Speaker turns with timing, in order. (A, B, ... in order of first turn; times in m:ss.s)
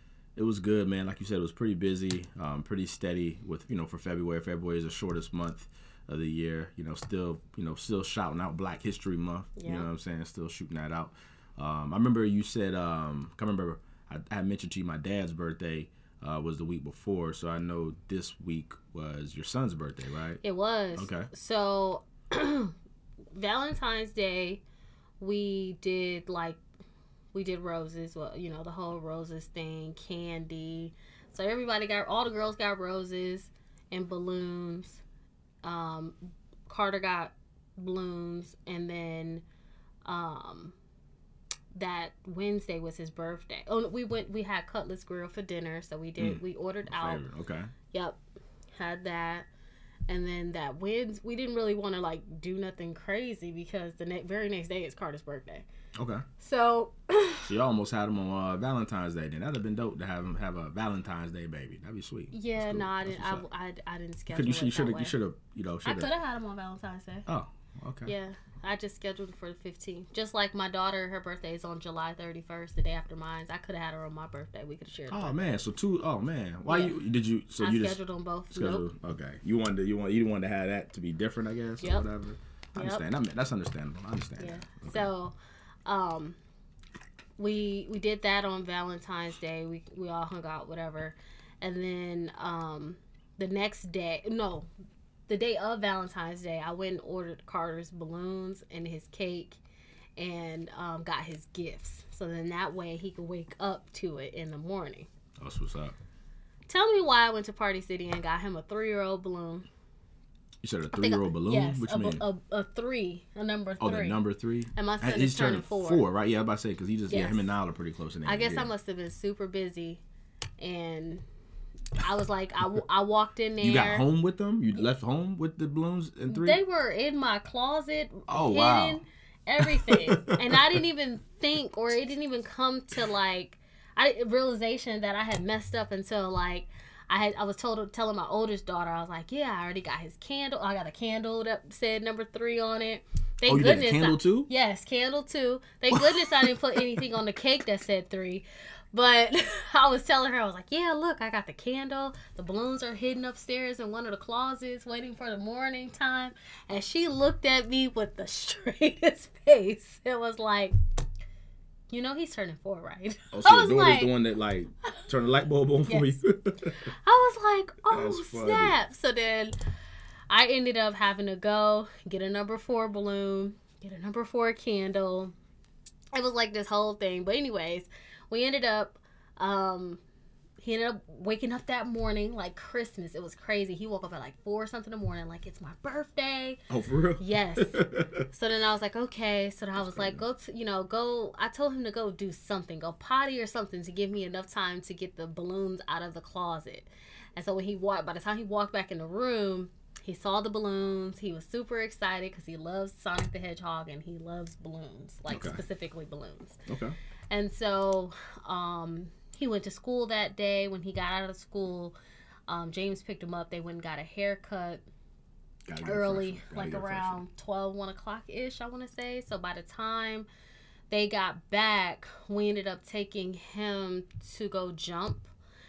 0:00.4-0:20.4 A
0:09.6-0:09.9 B
0:20.4-0:22.7 B
0:21.0-0:21.3 A
0:23.4-0:24.6 B
0:25.2-0:26.6 B
0:27.3-0:35.0 B
0:35.6-0:39.4 B
0:40.0-0:40.8 B
0:41.7-0:47.2 B
0:46.2-0:47.7 A
0:47.9-0:48.2 B
0:48.8-0:49.5 B
0:50.1-0:55.7 B
0:56.0-0:56.2 A
0:56.4-0:57.5 B
0:57.4-1:03.4 A
1:02.3-1:05.2 B
1:04.3-1:06.1 A
1:05.8-1:07.3 B
1:07.3-1:08.1 A
1:08.1-1:15.5 B
1:15.1-1:18.0 A
1:16.7-1:17.0 B
1:17.6-1:18.8 B
1:18.5-1:25.1 A
1:21.8-1:22.1 B
1:22.8-1:23.0 B
1:24.4-1:25.4 B
1:25.9-1:26.4 B
1:27.4-1:34.7 B
1:35.3-1:39.6 B
1:40.2-1:45.1 B
1:45.4-1:46.0 A
1:46.7-1:49.7 B
1:50.6-1:52.2 A
1:50.9-1:54.2 B
1:53.8-1:58.7 A
1:54.8-1:56.0 B
1:57.1-1:57.5 B
1:58.2-2:00.0 B
2:00.6-2:01.2 B
2:02.0-2:04.0 B
2:03.6-2:06.6 A
2:06.3-2:40.8 B
2:08.3-2:09.0 A
2:09.6-2:10.8 A
2:23.5-2:24.5 A
2:25.9-2:27.0 A
2:41.9-2:44.1 B
2:43.3-2:46.9 A
2:45.9-2:46.2 B
2:46.8-2:49.6 B
2:47.9-2:48.8 A
2:50.3-2:55.3 B
2:56.1-3:00.0 B
3:00.6-3:06.6 B
3:06.7-3:08.2 A
3:07.2-3:26.6 B
3:09.8-3:10.2 A
3:25.3-3:25.6 A
3:26.7-3:27.0 A
3:27.3-3:32.0 B
3:32.5-3:34.9 B
3:35.7-3:37.2 A
3:35.8-3:40.3 B
3:40.9-3:45.3 B